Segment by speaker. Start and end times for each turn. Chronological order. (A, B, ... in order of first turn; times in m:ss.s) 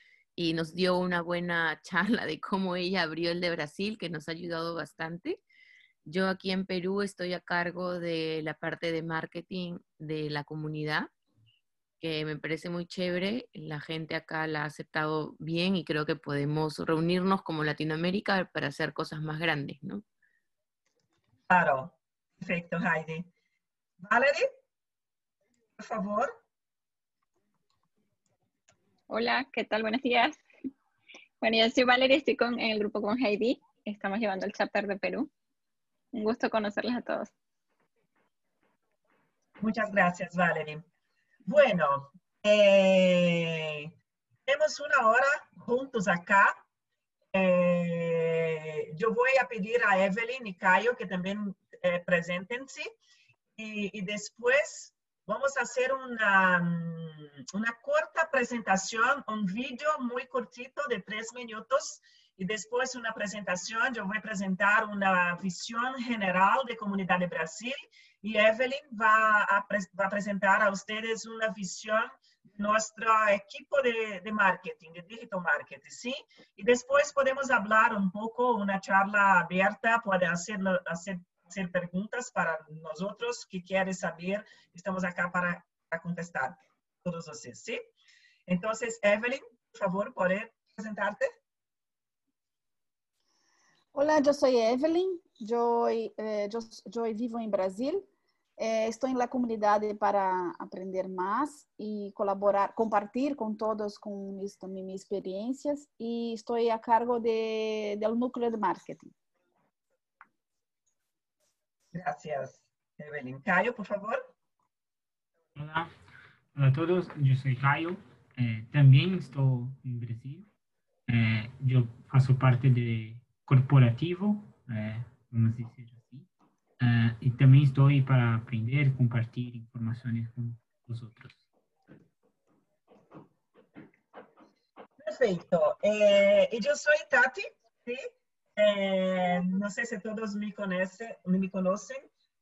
0:00.4-0:05.4 A
0:06.0-0:11.1 A
0:12.0-0:20.0 A
0:21.5-0:23.3 B
0:24.0-0:24.5 B
0:25.8-0:26.3 B
0:29.1-0:30.4 C
0:31.4-0:35.3 C
0:36.1-0:37.3 C
0:39.6-0:40.8 B
0:41.4-0:43.9 B
0:44.5-0:46.6 B
0:47.3-0:52.9 B
0:53.6-1:27.8 B
1:28.5-1:31.3 B
1:33.9-1:38.1 D
1:38.6-1:49.1 D
1:51.9-1:54.2 B
1:55.6-1:55.9 E
1:56.5-2:00.5 E
2:01.1-2:06.3 E
2:06.8-2:11.4 E
2:15.0-2:22.1 B